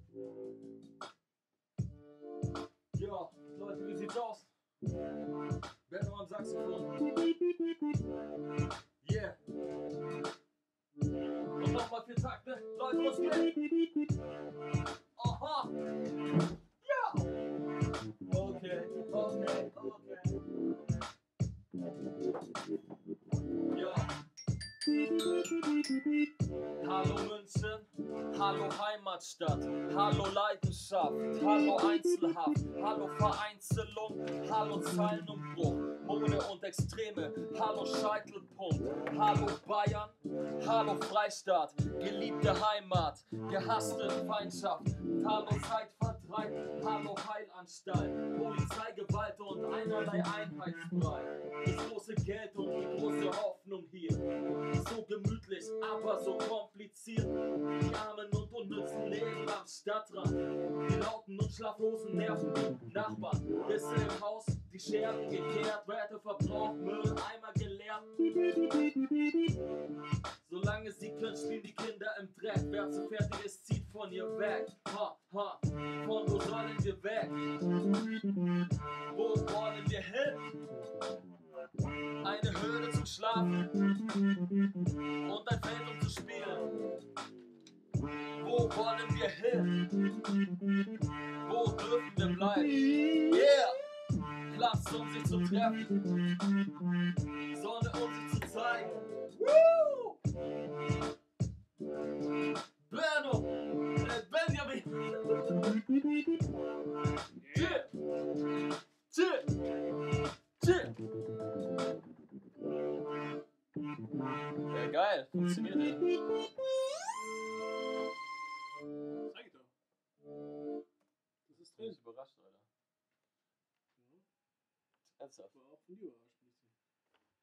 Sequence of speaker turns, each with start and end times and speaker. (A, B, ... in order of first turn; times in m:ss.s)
0:02.9-0:04.5 A
0:05.9-0:07.0 A
0:09.0-0:09.4 A
0:11.6-0:13.6 A
0:15.2-0:15.7 A
0:16.8-0:17.3 A
0:18.2-0:20.4 A
0:23.7-0:24.1 A
0:26.8-1:08.1 A
1:10.4-1:17.4 A
1:19.1-1:20.5 A
1:22.2-1:23.7 A
1:25.2-1:26.7 A
1:28.4-1:29.9 A
1:31.4-1:33.8 A
1:34.5-1:36.1 A
1:37.4-1:40.1 A
1:42.9-1:45.8 A
1:47.4-1:47.9 B
1:47.5-1:47.9 A
1:49.1-1:49.5 A
1:50.6-1:51.0 A
1:54.7-1:56.1 A
1:59.3-1:59.7 B
2:01.4-2:02.0 B
2:01.8-2:02.6 A
2:04.0-2:04.2 B
2:05.2-2:05.5 A
2:05.5-2:06.7 B